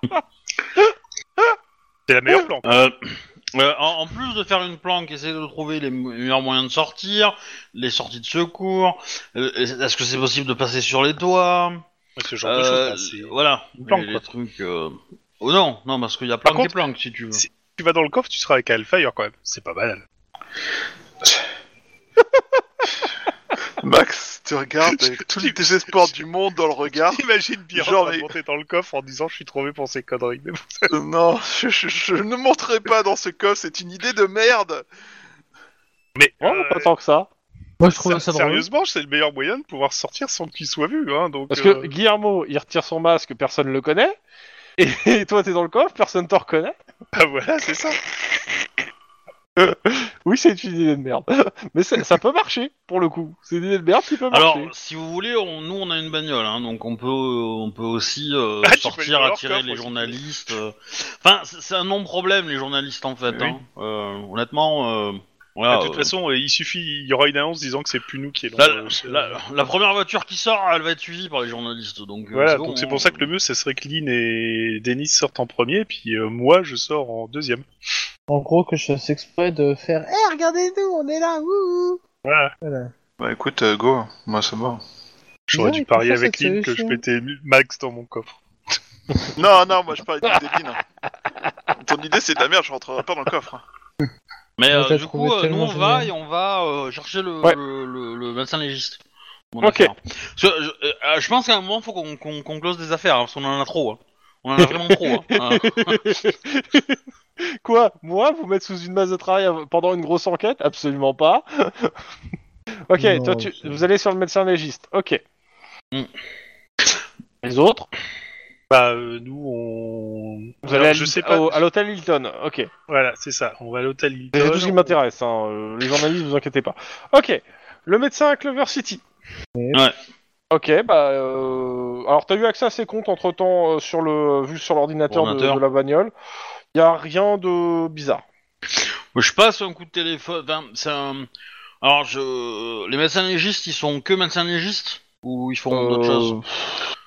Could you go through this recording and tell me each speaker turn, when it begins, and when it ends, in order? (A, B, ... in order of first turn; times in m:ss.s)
0:02.1-0:02.7 A
0:02.6-0:11.8 B
0:12.2-0:14.2 A
0:12.4-0:17.4 B
0:16.4-0:16.7 A
0:17.3-0:20.0 A
0:23.8-0:27.2 C
0:25.0-0:26.1 A
0:26.9-0:30.9 A
0:27.7-0:28.3 C
0:30.9-0:34.8 C
0:36.1-0:36.9 A
0:36.4-0:37.3 D
0:37.8-0:38.6 E
0:37.9-0:41.9 A
0:41.5-0:44.2 D
0:44.8-0:46.7 D
0:47.1-0:48.0 A
0:49.6-0:54.7 D
0:54.3-1:06.1 B
0:58.6-1:00.2 A
1:05.7-1:09.4 A
1:08.6-1:13.3 B
1:12.3-1:17.6 A
1:18.3-1:22.0 E
1:22.2-1:22.5 A
1:22.6-1:22.9 E
1:23.2-1:24.8 C
1:25.5-1:28.4 A
1:25.5-1:27.0 E
1:29.3-1:30.8 C
1:31.8-1:33.6 C
1:34.6-1:39.0 B
1:34.7-1:36.1 E
1:39.5-1:46.1 B
1:39.6-1:39.9 D
1:44.6-1:47.0 D
1:47.6-1:51.9 D
1:52.9-1:55.2 D
1:53.0-1:53.8 E
1:57.4-1:57.9 D
1:58.7-2:01.6 A
2:00.6-2:02.7 D
2:02.9-2:05.0 A
2:04.3-2:09.0 D
2:09.6-2:09.8 E
2:10.5-2:16.1 D
2:15.1-2:15.6 B
2:16.7-2:18.2 D
2:18.7-2:21.3 B
2:21.8-2:26.4 B
2:25.7-2:26.8 D